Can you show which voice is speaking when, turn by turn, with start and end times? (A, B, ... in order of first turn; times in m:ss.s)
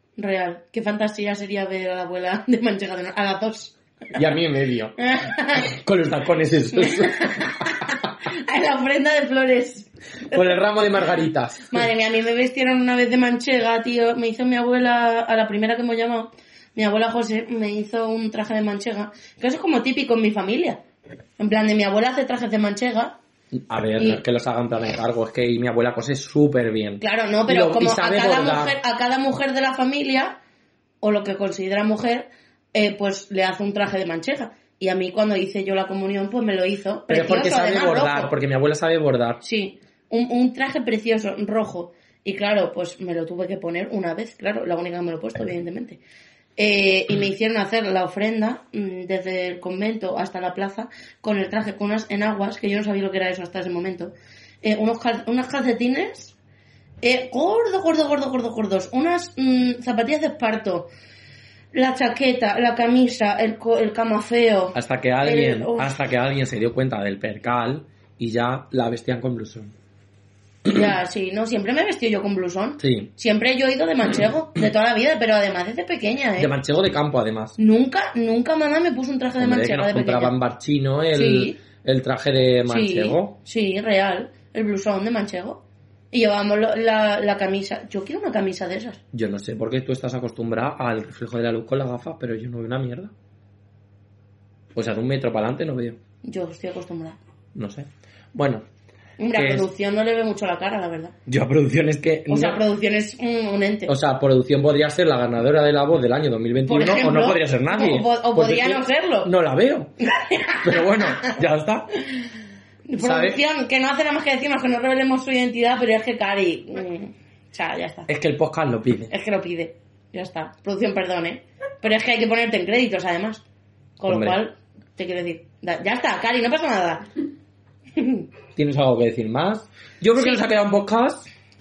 0:00.2-0:03.7 A
0:04.1-0:05.0 B
0:05.0-0:05.7 A
0:05.5-0:07.3 B
0:06.7-0:10.4 A
0:10.3-0:11.9 B
0:11.7-0:20.8 A
0:21.4-0:23.2 A
0:23.5-0:28.8 B
0:27.0-0:30.4 A
0:31.0-0:38.3 A
0:37.1-0:39.4 B
0:39.4-0:46.0 A
0:46.6-0:56.3 A
0:57.0-1:00.9 A
1:01.7-1:05.9 A
1:04.7-1:09.7 B
1:10.7-1:16.5 A
1:12.8-1:13.1 B
1:16.4-1:17.6 B
1:17.6-1:20.3 A
1:19.4-1:23.4 B
1:21.1-1:21.6 A
1:22.7-1:29.0 A
1:29.1-1:33.1 B
1:34.7-1:36.0 B
1:36.2-1:37.2 A
1:37.5-1:38.6 B
1:39.2-1:41.1 A
1:39.3-1:39.7 B
1:41.3-1:42.6 B
1:42.3-1:43.9 A
1:43.9-1:49.9 B
1:46.6-1:49.3 A
1:50.1-1:51.3 A
1:50.6-1:51.9 B
1:52.9-1:58.1 A
1:53.0-1:53.4 B
1:58.1-1:59.1 B
1:59.1-2:03.4 A
2:04.0-2:07.0 A
2:04.0-2:04.4 B
2:08.0-2:08.2 A
2:08.5-2:11.3 B